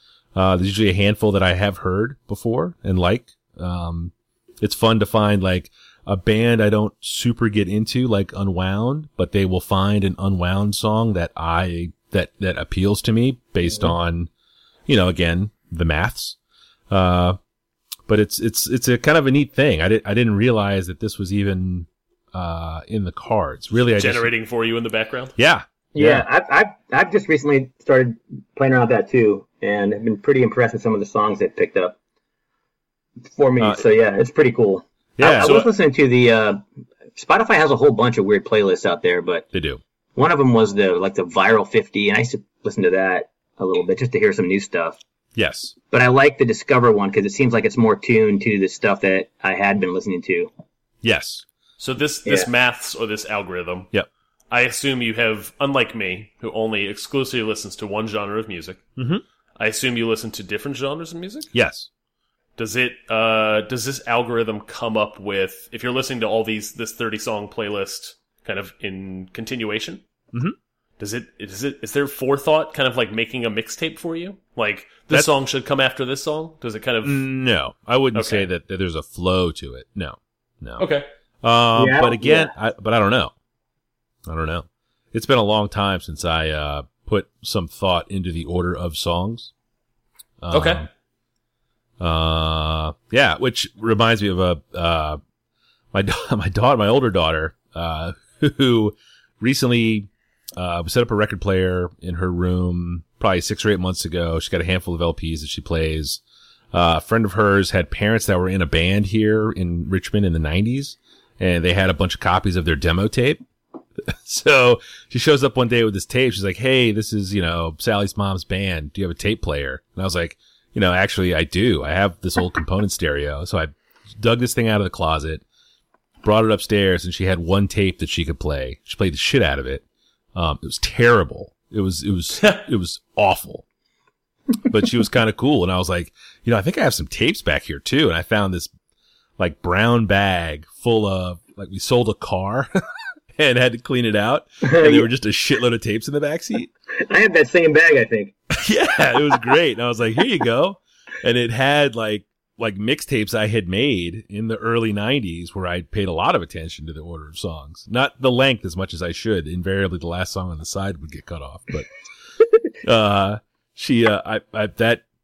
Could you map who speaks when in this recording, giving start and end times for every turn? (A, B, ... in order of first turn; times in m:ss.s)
0:00.3-0:14.3 A
0:14.9-0:16.4 A
0:16.9-0:17.4 A
0:18.1-0:24.3 A
0:24.0-0:25.3 B
0:25.4-0:26.2 A
0:25.9-0:31.9 C
0:33.3-0:36.6 C
0:35.2-0:35.6 A
0:35.4-0:35.7 B
0:37.2-0:39.5 C
0:39.5-0:39.8 A
0:40.2-0:45.0 C
0:45.3-0:45.7 A
0:45.9-0:50.5 C
0:51.0-0:51.4 A
0:51.8-0:53.9 B
0:54.5-0:58.8 B
0:59.0-0:59.2 A
0:59.6-1:01.5 B
1:01.5-1:01.9 A
1:02.6-1:10.0 B
1:11.0-1:17.3 B
1:17.0-1:20.8 A
1:18.1-1:18.5 B
1:20.8-1:21.1 B
1:21.4-1:23.3 A
1:21.7-1:22.5 C
1:24.2-1:29.5 A
1:30.4-1:30.9 A
1:30.5-1:30.8 B
1:32.0-1:35.2 A
1:35.9-1:46.2 A
1:46.7-1:53.4 A
1:54.0-2:05.4 A
2:06.2-2:09.8 A
2:10.3-2:13.6 A
2:14.7-2:18.7 A
2:19.4-2:22.7 A
2:23.4-2:26.7 A
2:24.6-2:25.1 C
2:27.0-2:28.3 C
2:28.6-2:41.9 A
2:42.8-2:45.0 A